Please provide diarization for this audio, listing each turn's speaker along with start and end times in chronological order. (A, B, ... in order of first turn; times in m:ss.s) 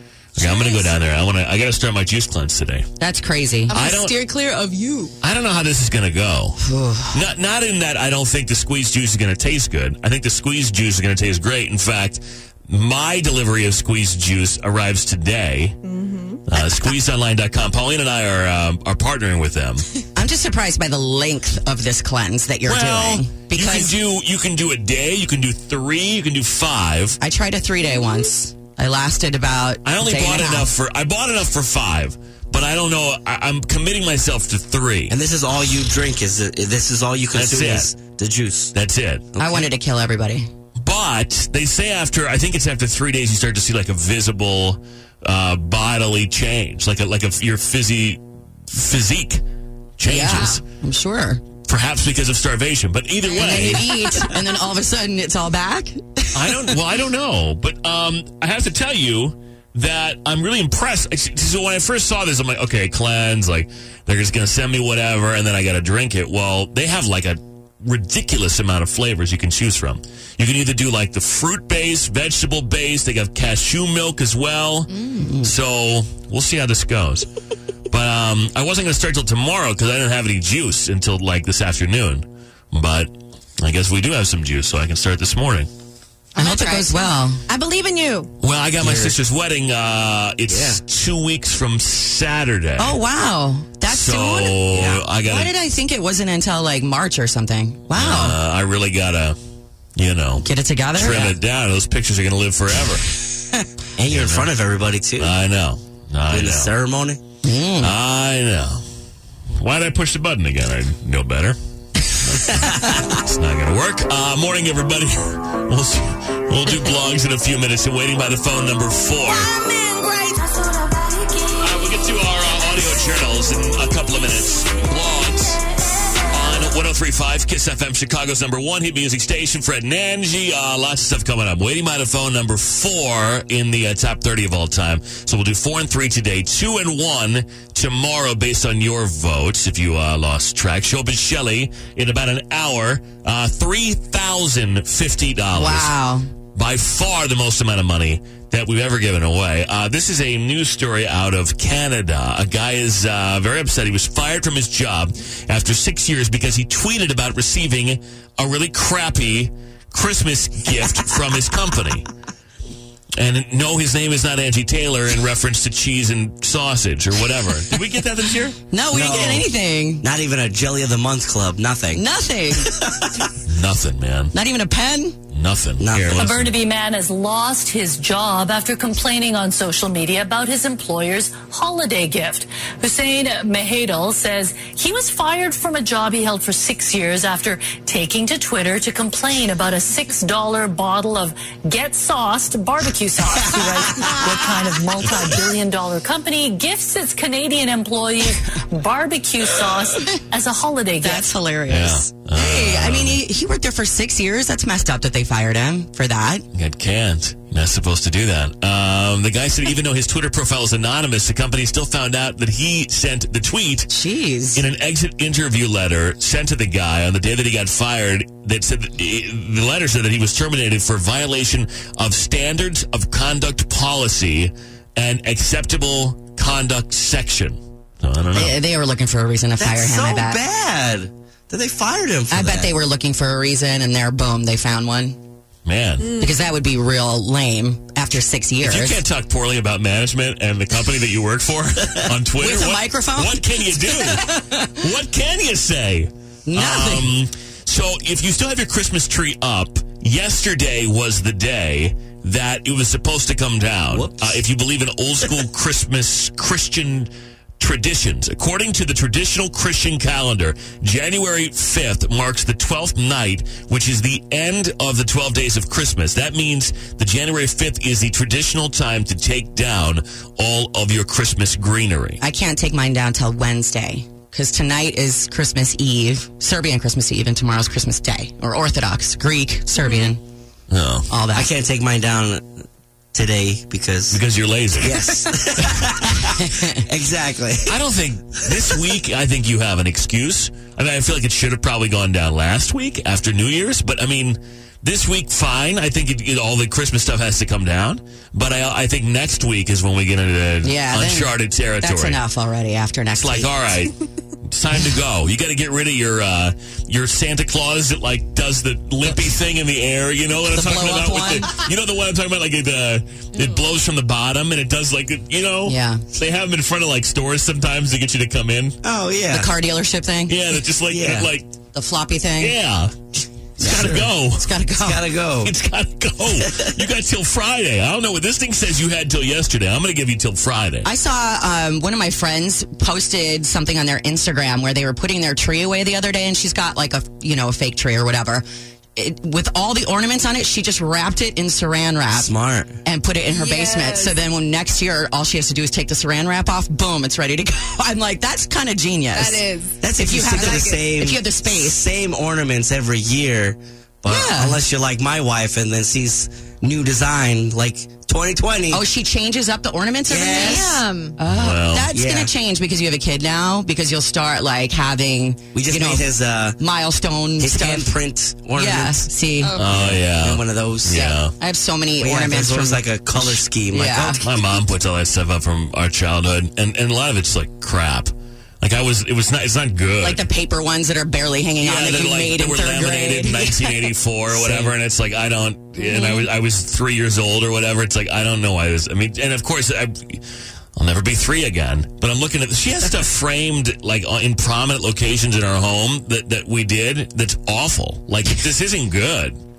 0:00.4-0:02.8 A
0:00.4-0:01.0 B
0:03.0-0:03.7 C
0:03.7-0:05.1 B
0:03.7-0:04.2 A
0:05.2-0:15.8 A
0:06.6-0:07.2 C
0:15.9-0:16.4 B
0:16.5-0:19.8 A
0:16.5-0:17.0 C
0:20.1-0:23.9 C
0:22.7-0:27.2 A
0:27.2-0:30.7 C
0:29.8-0:35.1 A
0:35.1-0:38.7 D
0:37.3-0:37.9 A
0:38.7-0:39.3 A
0:39.3-0:39.6 D
0:39.4-0:40.5 C
0:40.8-0:49.4 A
0:50.0-0:50.6 A
0:50.1-0:51.4 C
0:51.6-0:54.2 A
0:53.3-0:54.3 B
0:53.3-0:56.6 C
0:56.3-1:14.9 A
1:14.9-1:15.2 B
1:15.2-1:15.5 C
1:15.4-1:17.3 A
1:17.9-1:25.7 A
1:26.3-1:28.3 B
1:26.4-1:27.4 C
1:28.4-1:33.0 A
1:28.8-1:29.2 D
1:30.5-1:30.8 D
1:32.8-1:34.6 C
1:33.9-1:35.5 A
1:34.7-1:35.0 D
1:35.2-1:38.4 C
1:37.9-1:39.4 A
1:40.0-1:43.0 A
1:40.4-1:41.3 C
1:44.0-1:45.3 D
1:44.1-1:44.5 A
1:45.2-1:46.7 A
1:46.3-1:47.2 D
1:47.4-1:47.9 C
1:47.8-1:48.8 A
1:49.6-1:51.6 A
1:52.2-1:59.5 A
1:52.5-1:53.0 D
1:59.3-2:01.5 B
2:01.6-2:05.6 A
2:06.3-2:25.9 A
2:25.5-2:26.3 C
2:26.5-2:42.1 A
2:43.2-2:49.4 A
2:48.7-2:50.0 C
2:48.9-2:49.4 D
2:50.0-2:53.3 D
2:51.9-2:52.7 C
2:53.5-2:54.3 A
2:54.3-2:55.2 C
2:55.3-2:56.5 A
2:55.8-2:56.2 D
2:56.1-3:21.2 E
3:21.0-3:26.4 C
3:21.7-3:23.2 A
3:26.5-3:33.9 A
3:33.9-3:34.6 C
3:34.5-3:48.6 A
3:48.3-3:50.4 C
3:49.6-3:52.7 D
3:52.3-3:55.2 C
3:55.6-3:56.2 A
3:56.0-3:56.3 B
3:56.1-3:59.0 C
3:58.6-4:32.2 A
4:02.4-4:04.7 C
4:06.5-4:07.1 C
4:13.9-4:14.4 D
4:32.2-4:40.2 C
4:39.8-4:40.1 B
4:40.7-4:41.1 A
4:41.1-4:41.5 C
4:41.3-4:42.5 D
4:43.1-4:44.2 D
4:44.1-4:45.0 A
4:44.7-4:47.8 D
4:45.6-4:45.9 A
4:46.4-4:46.8 C
4:47.7-5:02.2 A
5:00.6-5:03.5 C
5:03.2-5:03.9 A
5:04.5-5:18.8 A
5:10.5-5:11.6 C
5:15.6-5:16.0 C
5:18.8-5:19.5 D
5:19.3-5:20.3 C
5:20.3-5:21.5 A
5:20.9-5:21.3 D
5:21.7-5:22.5 C
5:22.4-5:22.9 A
5:23.6-5:24.5 A
5:23.6-5:25.0 C
5:23.6-5:24.0 D
5:24.8-5:25.5 D
5:25.4-5:30.9 A
5:26.4-5:26.8 D
5:30.8-5:38.4 C
5:39.0-5:42.3 C
5:42.1-5:42.7 D
5:42.8-5:49.4 C
5:43.3-5:44.2 B
5:49.1-5:50.8 B
5:49.8-5:58.8 D
5:49.9-5:51.8 C
5:54.1-5:54.6 C
5:58.7-6:07.9 C
6:00.1-6:00.7 D
6:00.2-6:01.2 B
6:01.3-6:01.9 A
6:01.9-6:02.3 D
6:05.5-6:06.6 D
6:07.4-6:11.2 D
6:08.5-6:09.5 C
6:09.4-6:09.8 B
6:09.6-6:11.3 A
6:11.4-6:14.2 C
6:12.0-6:14.4 D
6:14.2-6:20.2 A
6:20.0-6:24.7 C
6:21.6-6:30.2 A
6:25.9-6:26.2 C
6:30.8-6:39.4 A